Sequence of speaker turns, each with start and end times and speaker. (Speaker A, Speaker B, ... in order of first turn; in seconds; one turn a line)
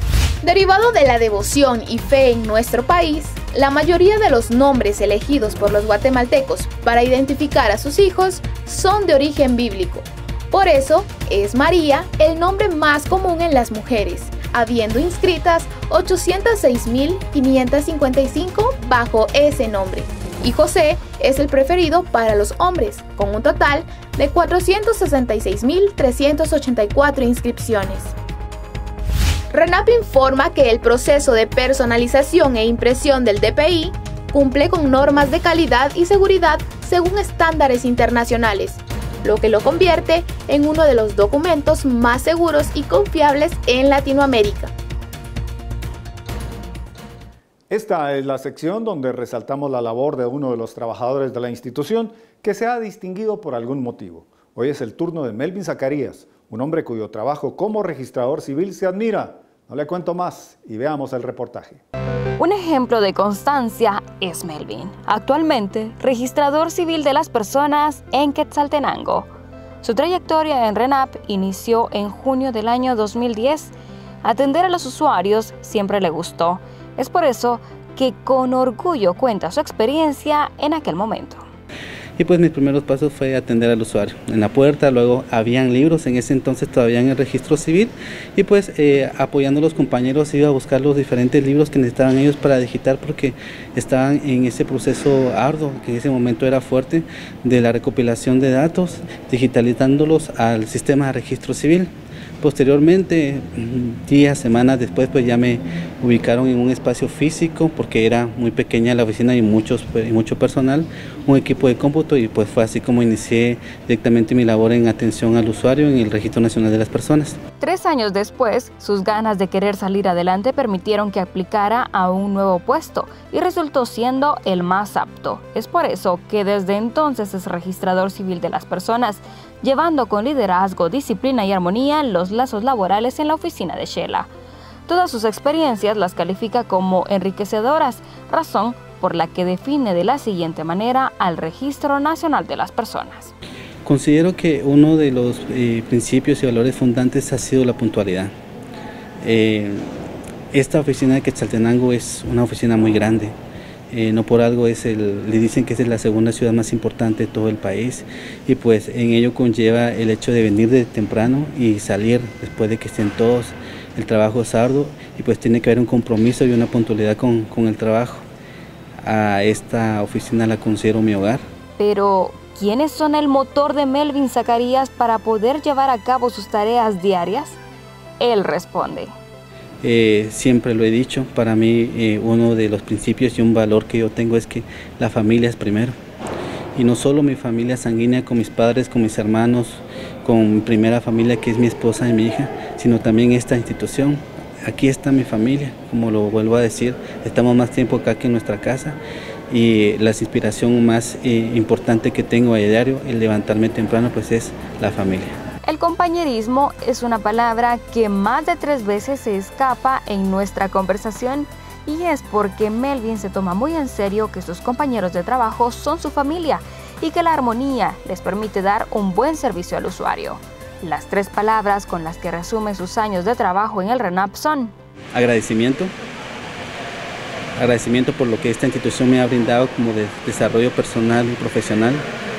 Speaker A: 0.4-28.1
Speaker A: 29.5-44.7
Speaker B: 47.7-61.8
Speaker C: 62.4-69.3
Speaker C: 69.8-81.4
Speaker D: 82.2-117.4
Speaker C: 117.6-134.3
Speaker C: 134.9-143.3
Speaker D: 143.8-148.3
Speaker D: 149.2-149.9
Speaker D: 150.5-153.3
Speaker D: 153.9-168.2
Speaker D: 169.0-171.4
Speaker C: 171.8-177.6
Speaker C: 178.2-179.1
Speaker D: 179.8-185.9
Speaker D: 186.7-199.0
Speaker D: 199.5-205.4
Speaker C: 205.7-224.7
Speaker D: 225.1-225.9
Speaker D: 227.6-232.1